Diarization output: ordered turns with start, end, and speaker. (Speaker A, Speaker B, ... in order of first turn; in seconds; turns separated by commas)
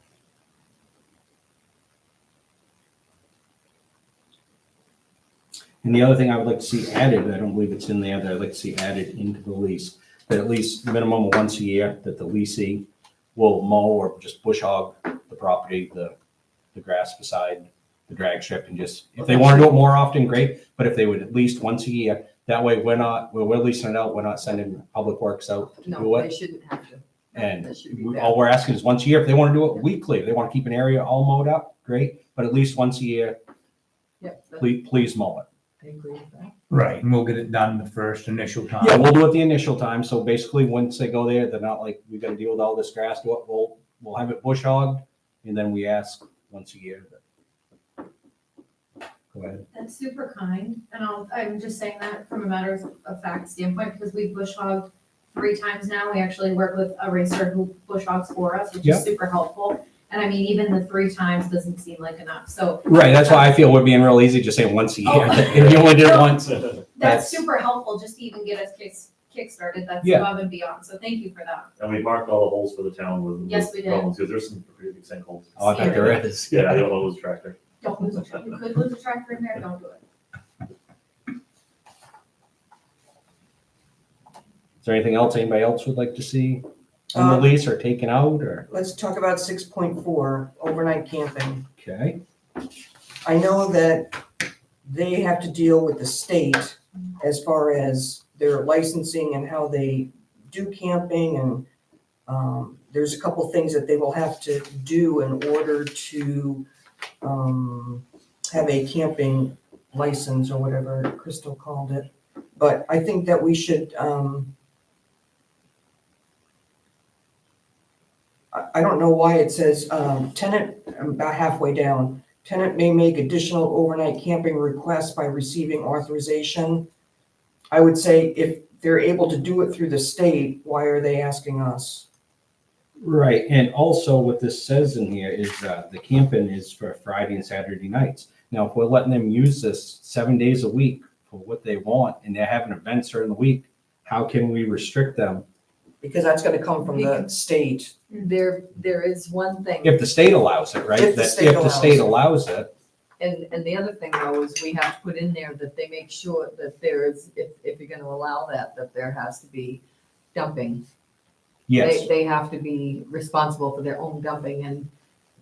Speaker A: 5.8-16.1, Speaker A: 16.7-26.3, Speaker B: 25.8-28.4, Speaker A: 27.3-33.4, Speaker B: 34.2-34.7, Speaker A: 34.6-35.5, Speaker B: 35.8-36.5, Speaker C: 36.7-39.1, Speaker A: 38.8-47.2, Speaker A: 49.3-49.6, Speaker D: 49.7-63.6, Speaker A: 62.8-67.4, Speaker D: 65.0-66.3, Speaker D: 66.9-71.7, Speaker A: 70.0-70.3, Speaker E: 71.8-77.5, Speaker D: 73.4-74.1, Speaker A: 75.6-76.6, Speaker D: 75.6-76.2, Speaker D: 77.8-80.0, Speaker A: 84.8-88.7, Speaker F: 87.1-87.5, Speaker F: 88.7-91.7, Speaker A: 91.8-92.2, Speaker F: 93.2-94.2, Speaker F: 94.8-101.6, Speaker F: 102.3-106.6, Speaker F: 107.2-114.5, Speaker F: 118.5-126.9, Speaker F: 127.7-132.1, Speaker A: 133.0-145.4, Speaker F: 146.0-147.9, Speaker B: 148.2-150.1, Speaker A: 149.8-152.7, Speaker F: 150.9-152.2, Speaker B: 153.2-159.8, Speaker B: 160.3-160.8, Speaker A: 161.7-162.1, Speaker B: 161.8-164.9